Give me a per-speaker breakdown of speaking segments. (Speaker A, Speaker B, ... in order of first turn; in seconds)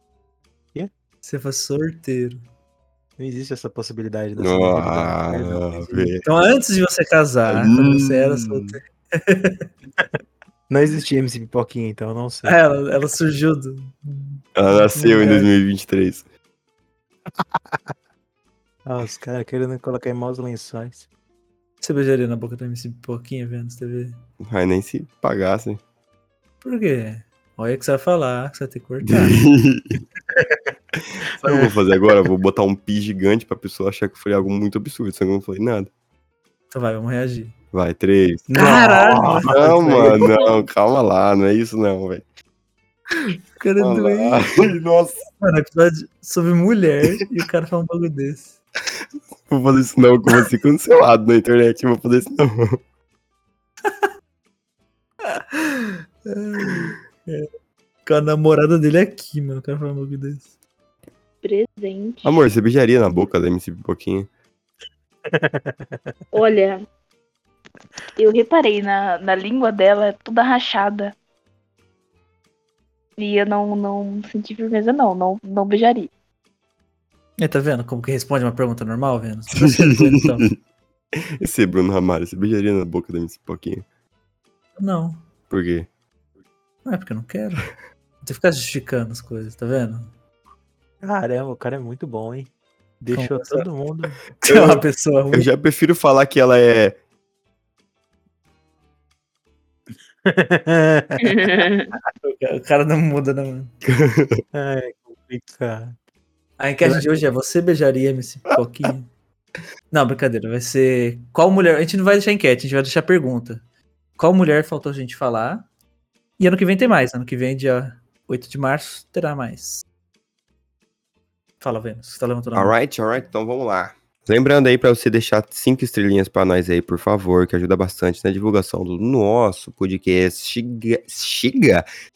Speaker A: 1.2-2.4, 6.2-9.7, 12.5-15.5, 21.8-24.2, 26.6-29.4, 36.7-37.5, 38.5-40.4, 43.3-44.8, 45.3-48.5, 55.3-57.5, 58.1-60.5, 77.4-80.5, 84.8-85.2, 86.8-87.7, 88.2-90.1, 93.1-93.7, 94.4-95.5, 102.2-103.8, 106.6-109.1, 109.9-113.6, 114.2-115.7, 116.4-119.8, 121.6-122.7
Speaker B: 3.2-6.1, 10.7-12.6, 17.3-17.9, 18.9-21.1, 30.3-30.7, 31.4-31.7, 38.5-40.3, 65.3-66.2, 91.0-94.2, 100.2-101.7, 104.5-106.0, 106.8-107.1
Speaker C: 4.4-6.2, 7.5-8.8, 14.6-16.2, 24.4-25.8, 29.1-30.0, 31.0-35.9, 37.7-38.5, 39.4-42.2, 43.8-45.2, 49.5-52.8, 62.2-64.3, 79.5-80.6, 81.1-83.8, 85.5-85.9, 94.4-97.0, 103.9-104.4, 122.5-131.9
Speaker D: 61.4-62.4, 66.3-66.8, 68.2-71.1, 73.2-76.1, 101.2-101.9